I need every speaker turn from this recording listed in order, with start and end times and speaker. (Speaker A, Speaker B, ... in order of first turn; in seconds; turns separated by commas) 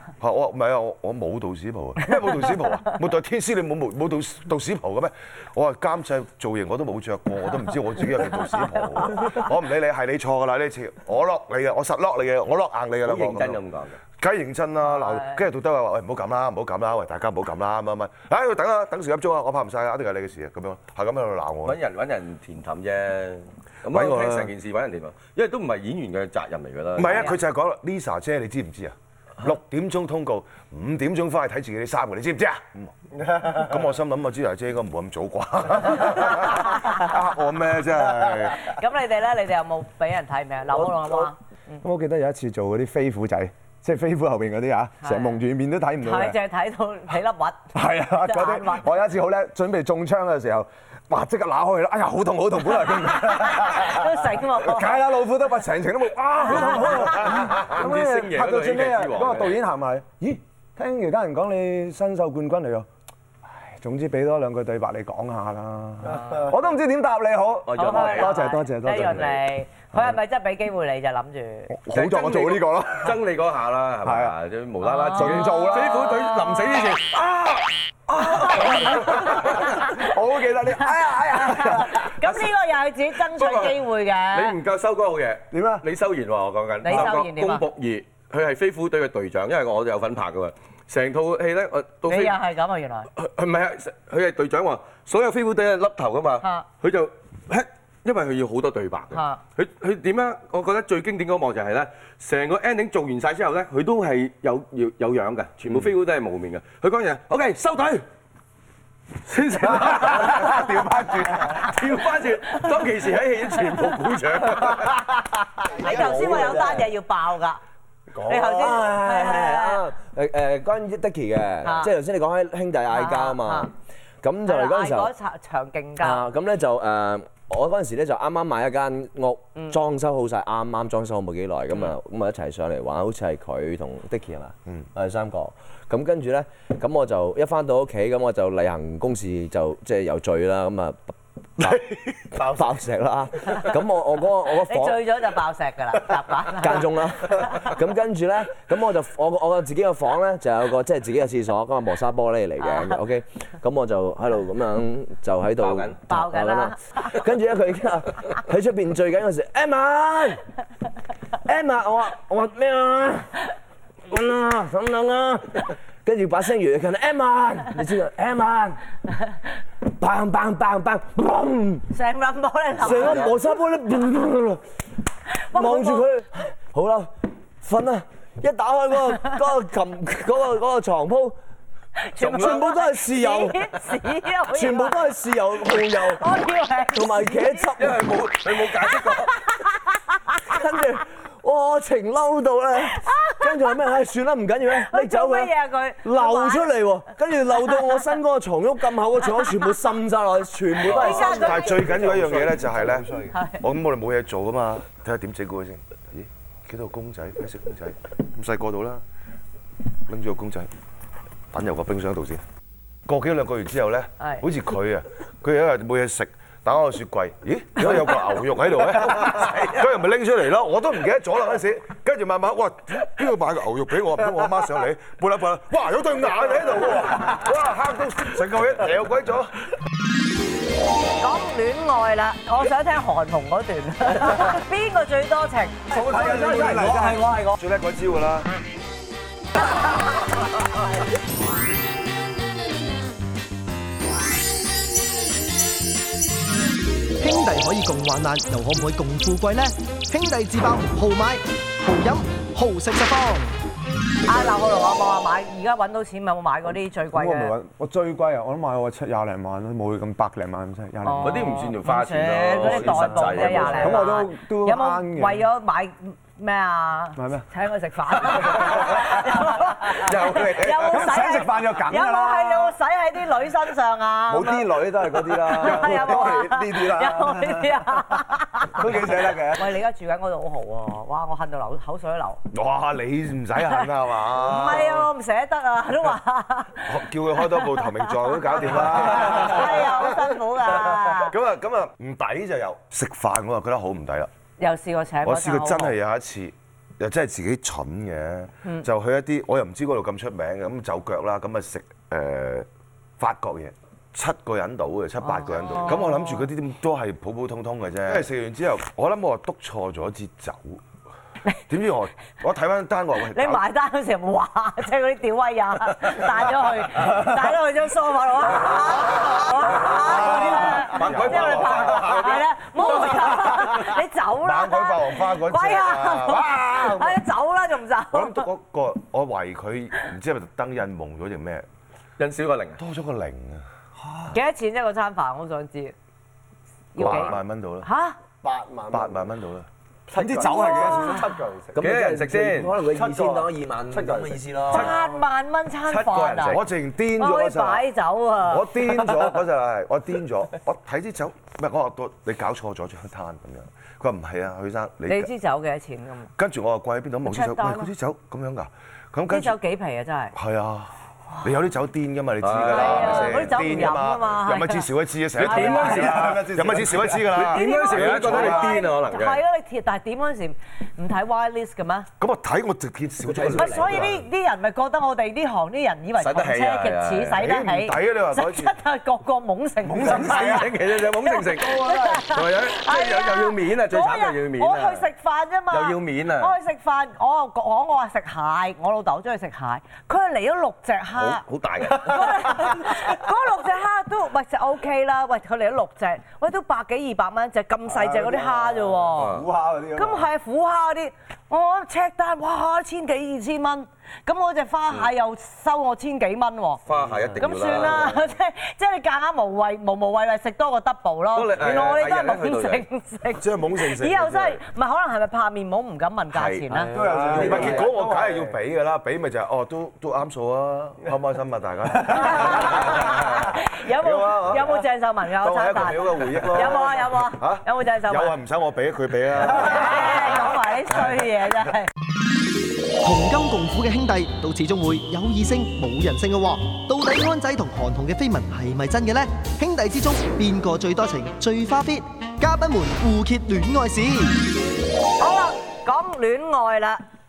Speaker A: 0.2-13.6, Speaker B: 13.0-14.0, Speaker A: 14.2-21.8, Speaker C: 14.8-15.4, Speaker B: 21.6-27.3, Speaker A: 23.9-24.5, Speaker A: 27.0-32.9, Speaker C: 27.0-27.4, Speaker A: 33.5-38.7, Speaker C: 38.5-41.8, Speaker D: 40.9-41.3, Speaker D: 41.8-46.4, Speaker C: 45.0-45.4, Speaker C: 46.0-48.9, Speaker D: 47.7-62.9, Speaker C: 53.2-55.1, Speaker C: 56.4-57.2, Speaker B: 57.2-59.6, Speaker D: 63.6-69.4, Speaker B: 67.7-69.4, Speaker C: 67.8-71.7, Speaker D: 71.7-73.2, Speaker B: 71.9-77.6, Speaker D: 74.0-74.4, Speaker C: 74.8-76.6, Speaker D: 75.1-76.3, Speaker B: 78.1-79.7, Speaker D: 78.2-82.1, Speaker C: 78.5-80.0, Speaker C: 81.3-84.6, Speaker B: 82.2-82.5, Speaker B: 83.3-92.4, Speaker D: 85.5-85.9, Speaker C: 86.8-87.7, Speaker C: 92.1-93.1, Speaker B: 93.2-108.0, Speaker C: 99.1-99.4, Speaker B: 109.2-115.1, Speaker D: 109.9-111.8, Speaker C: 115.7-117.6, Speaker E: 115.8-116.9, Speaker F: 116.1-116.5, Speaker E: 118.2-125.1, Speaker C: 118.3-119.8, Speaker C: 121.6-121.9, Speaker C: 122.9-123.7, Speaker C: 124.5-126.2, Speaker E: 126.0-141.8, Speaker E: 142.3-145.0, Speaker C: 144.7-147.7, Speaker E: 146.6-160.4, Speaker C: 152.6-152.9, Speaker B: 155.6-156.0, Speaker C: 156.1-156.8, Speaker E: 161.5-163.3, Speaker E: 164.1-168.8, Speaker E: 169.9-171.9, Speaker C: 171.9-173.3, Speaker E: 172.8-174.6, Speaker C: 175.4-176.1, Speaker E: 175.5-181.4, Speaker C: 182.0-185.0, Speaker B: 182.2-182.6, Speaker E: 182.2-183.7, Speaker E: 184.5-186.3, Speaker C: 185.9-187.7, Speaker E: 186.9-188.2, Speaker B: 187.8-189.4, Speaker E: 190.3-201.7, Speaker C: 193.1-193.3, Speaker C: 194.9-196.7, Speaker B: 200.9-201.1, Speaker C: 200.9-201.9, Speaker A: 201.0-209.0, Speaker F: 201.4-203.3, Speaker C: 203.3-203.6, Speaker A: 210.1-210.7, Speaker A: 211.5-212.4, Speaker A: 213.1-229.5, Speaker C: 214.2-214.4, Speaker B: 219.0-219.9, Speaker C: 231.2-235.9, Speaker D: 235.9-237.4, Speaker E: 235.9-237.6, Speaker A: 237.5-238.5, Speaker G: 247.2-253.6, Speaker C: 254.2-257.5, Speaker D: 257.1-261.6, Speaker C: 261.0-282.4, Speaker B: 261.2-264.1, Speaker D: 262.6-265.5, Speaker D: 267.2-267.5, Speaker B: 268.4-269.2, Speaker B: 269.9-271.2, Speaker D: 270.6-272.8, Speaker D: 274.3-279.8, Speaker A: 282.5-285.1, Speaker C: 283.6-291.4, Speaker A: 286.9-294.3, Speaker C: 294.6-296.0, Speaker A: 295.2-302.7, Speaker A: 303.2-310.8, Speaker C: 305.2-306.5, Speaker A: 311.7-313.6, Speaker C: 313.3-328.5, Speaker A: 319.8-322.3, Speaker B: 319.8-323.3, Speaker A: 323.0-327.2, Speaker A: 328.1-331.7, Speaker B: 332.2-332.8, Speaker A: 332.8-333.6, Speaker D: 334.1-334.3, Speaker C: 334.3-335.9, Speaker C: 336.9-338.2, Speaker A: 337.0-337.9, Speaker F: 338.4-339.3, Speaker A: 338.9-339.7, Speaker F: 340.1-341.9, Speaker D: 340.1-341.3, Speaker C: 340.5-341.2, Speaker E: 341.7-344.9, Speaker B: 341.8-342.8, Speaker F: 342.9-344.5, Speaker C: 344.7-346.6, Speaker B: 344.7-345.1, Speaker B: 345.9-346.6, Speaker A: 346.4-347.9, Speaker C: 347.1-348.9, Speaker A: 348.4-355.3, Speaker C: 355.1-356.3, Speaker A: 356.4-359.6, Speaker C: 357.2-357.9, Speaker C: 359.3-360.4, Speaker A: 360.3-368.9, Speaker B: 362.4-363.6, Speaker C: 362.7-364.9, Speaker B: 365.4-366.5, Speaker C: 365.4-366.3, Speaker D: 365.4-367.2, Speaker B: 367.3-369.4, Speaker C: 367.5-372.1, Speaker A: 372.2-374.2, Speaker E: 373.2-374.2, Speaker C: 373.5-406.8, Speaker B: 376.2-377.4, Speaker A: 377.4-378.7, Speaker D: 379.8-380.8, Speaker B: 380.0-385.1, Speaker D: 381.8-382.2, Speaker B: 385.7-386.5, Speaker B: 391.1-392.4, Speaker D: 392.1-392.9, Speaker D: 397.9-400.3, Speaker B: 399.2-399.5, Speaker B: 406.9-408.2, Speaker C: 407.4-416.9, Speaker B: 411.3-412.9, Speaker A: 413.4-414.6, Speaker B: 416.3-417.6, Speaker D: 416.9-418.0, Speaker F: 417.0-418.6, Speaker A: 417.3-430.7, Speaker C: 422.1-428.4, Speaker C: 429.5-431.9, Speaker G: 433.0-444.4, Speaker C: 445.2-447.0